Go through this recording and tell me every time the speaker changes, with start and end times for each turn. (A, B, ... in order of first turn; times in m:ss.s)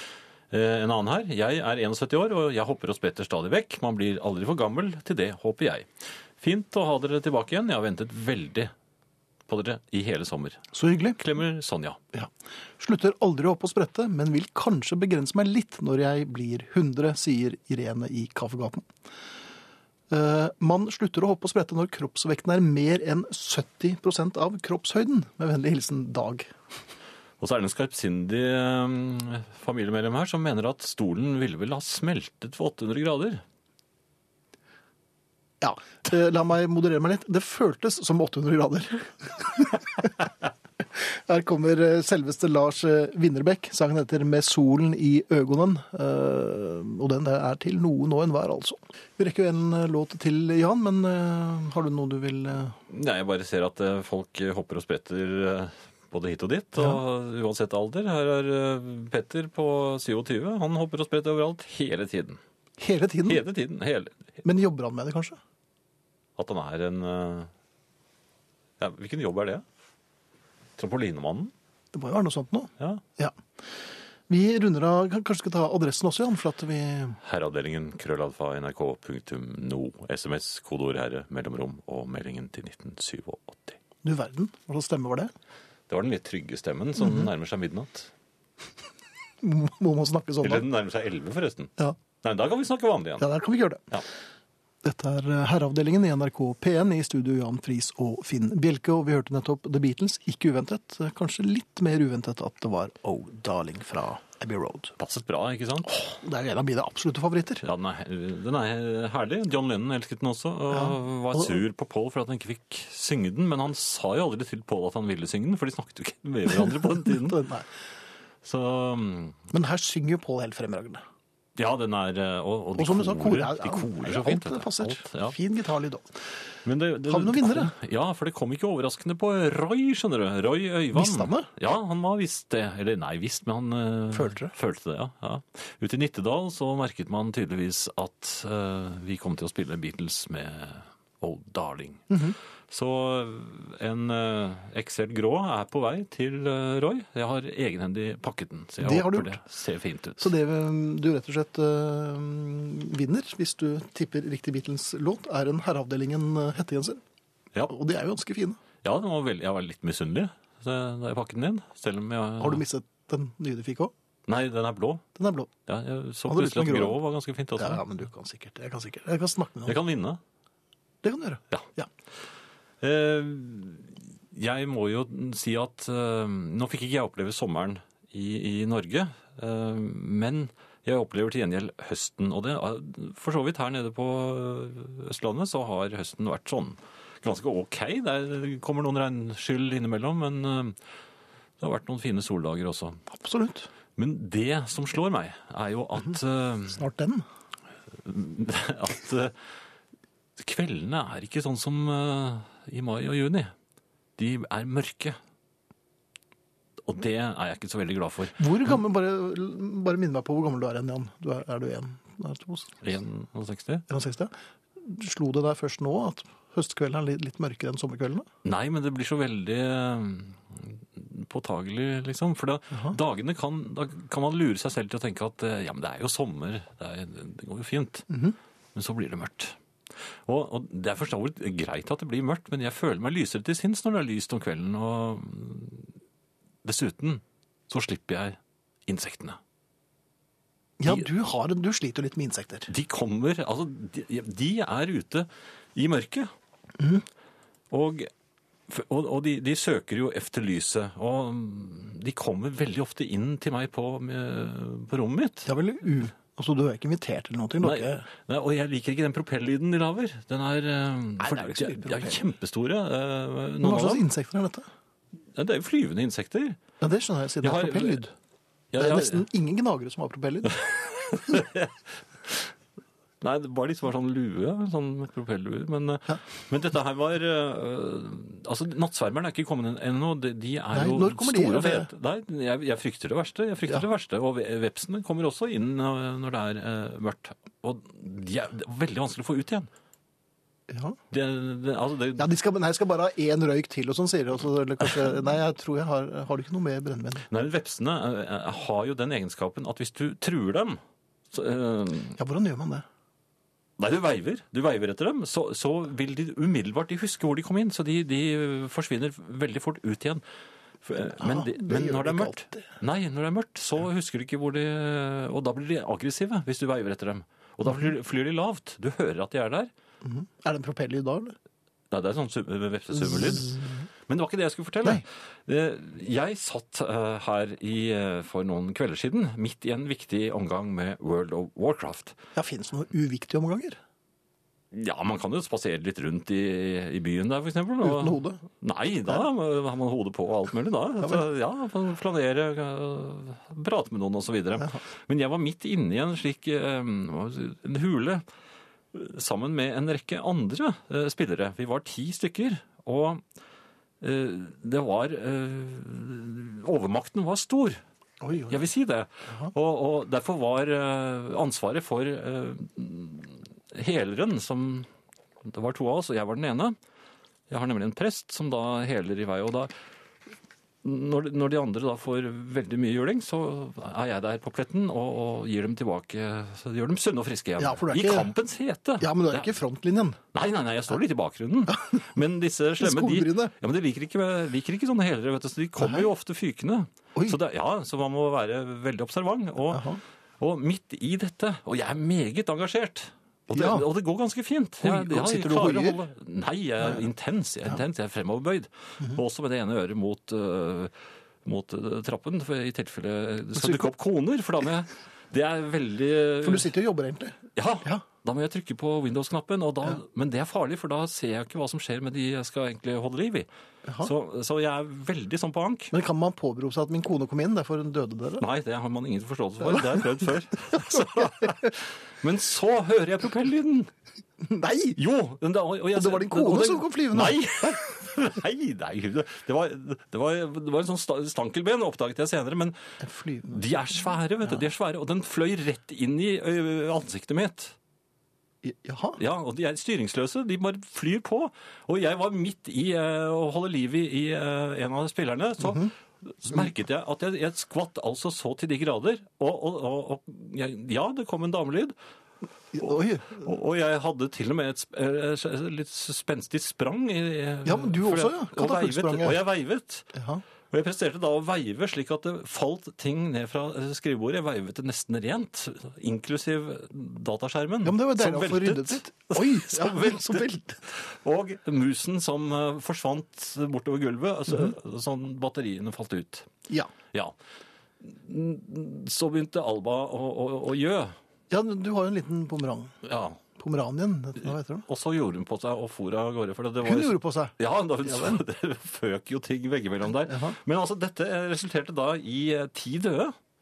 0:00.5-0:05.9 A
0:06.4-0:08.7 A
0:09.5-0:12.0 A
0:10.7-0:11.2 B
0:12.1-0:18.9 B
0:20.1-0:26.5 B
0:27.4-0:33.4 A
0:35.6-0:40.3 B
0:40.9-0:52.8 B
0:52.9-1:02.4 A
1:02.8-1:03.4 B
1:03.2-1:04.3 A
1:04.4-1:05.4 B
1:06.4-1:07.5 A
1:08.8-1:09.6 A
1:10.8-1:11.5 A
1:11.9-1:13.4 B
1:14.3-1:17.2 B
1:17.2-1:23.8 A
1:24.0-1:25.3 B
1:25.9-1:28.1 A
1:27.0-1:27.3 B
1:29.4-1:30.6 B
1:30.4-1:33.3 A
1:33.2-1:33.9 B
1:34.8-1:44.9 B
1:45.0-1:46.2 A
1:46.1-1:47.6 B
1:47.6-1:57.4 A
1:50.7-1:51.6 B
1:56.5-1:57.7 B
1:58.4-1:59.4 A
1:59.5-2:01.0 B
2:01.6-2:05.4 A
2:02.8-2:06.1 B
2:06.6-2:22.2 A
2:07.1-2:07.7 B
2:10.9-2:11.5 B
2:14.1-2:14.5 B
2:22.1-2:22.4 B
2:22.7-2:30.3 A
2:28.8-2:29.4 B
2:30.2-2:37.0 B
2:37.7-2:38.6 B
2:38.8-2:42.6 A
2:42.4-2:43.9 B
2:44.3-2:45.0 A
2:45.2-2:45.5 B
2:45.7-2:47.8 A
2:46.3-2:47.0 B
2:47.6-2:49.8 B
2:49.6-2:50.2 A
2:51.0-2:51.9 B
2:52.8-3:10.8 A
3:11.6-3:13.0 A
3:13.1-3:13.7 B
3:14.0-3:16.8 A
3:16.7-3:17.2 B
3:18.0-3:19.3 A
3:20.4-3:23.5 A
3:24.2-3:25.2 A
3:26.8-3:28.5 A
3:28.4-3:32.7 B
3:32.8-3:33.8 A
3:33.9-3:38.3 B
3:38.4-3:48.1 A
3:48.1-3:48.4 B
3:48.7-3:49.5 A
3:50.2-3:55.9 A
3:56.6-3:59.4 A
4:00.8-4:02.7 B
4:02.7-4:06.3 A
4:06.8-4:07.0 B
4:07.7-4:08.1 A
4:08.7-4:15.5 A
4:15.4-4:18.0 B
4:17.6-4:24.0 A
4:21.2-4:22.2 B
4:23.6-4:24.6 B
4:25.3-4:26.6 A
4:26.8-4:28.1 B
4:27.4-4:28.0 A
4:28.7-4:29.2 A
4:28.8-4:30.6 B
4:30.5-4:32.5 A
4:33.2-4:49.7 A
4:40.7-4:41.9 B
4:50.7-4:51.0 B
4:51.1-4:52.3 A
4:52.2-4:57.2 B
4:57.3-5:00.8 A
5:01.3-5:02.2 A
5:02.2-5:02.8 B
5:03.8-5:10.2 A
5:10.8-5:19.7 A
5:11.2-5:12.6 B
5:20.0-5:21.3 B
5:21.9-5:32.2 A
5:23.0-5:23.7 B
5:32.3-5:33.8 B
5:34.7-5:48.2 A
5:37.8-5:38.4 B
5:48.9-5:53.2 A
5:54.0-5:57.8 A
5:58.2-5:58.6 B
5:58.5-6:04.9 A
6:05.4-6:06.8 A
6:07.5-6:09.7 A
6:10.8-6:19.6 A
6:17.6-6:18.3 B
6:19.0-6:20.2 B
6:20.3-6:29.9 A
6:22.8-6:23.5 B
6:25.8-6:26.1 B
6:29.7-6:30.0 B
6:30.4-6:40.9 A
6:33.5-6:33.8 B
6:34.8-6:36.0 B
6:41.4-6:46.7 A
6:43.6-6:43.9 B
6:46.4-6:48.0 B
6:47.5-6:53.5 A
6:53.8-6:54.1 B
6:54.0-6:55.9 A
6:55.9-6:58.4 B
6:58.4-7:03.9 A
6:59.6-7:00.1 B
7:00.7-7:01.5 B
7:04.4-7:05.0 B
7:05.0-7:12.9 A
7:05.9-7:07.8 B
7:13.0-7:13.6 B
7:13.5-7:17.7 A
7:18.6-7:19.2 B
7:19.2-7:31.9 A
7:25.6-7:25.9 B
7:32.7-7:33.4 B
7:32.8-7:40.1 A
7:37.6-7:39.4 B
7:40.1-7:40.4 B
7:40.7-7:56.5 A
7:47.8-7:50.8 B
7:58.0-8:01.1 A
8:01.5-8:02.9 B
8:03.0-8:03.4 A
8:03.6-8:04.8 B
8:04.9-8:13.3 A
8:06.8-8:08.4 B
8:10.3-8:10.6 B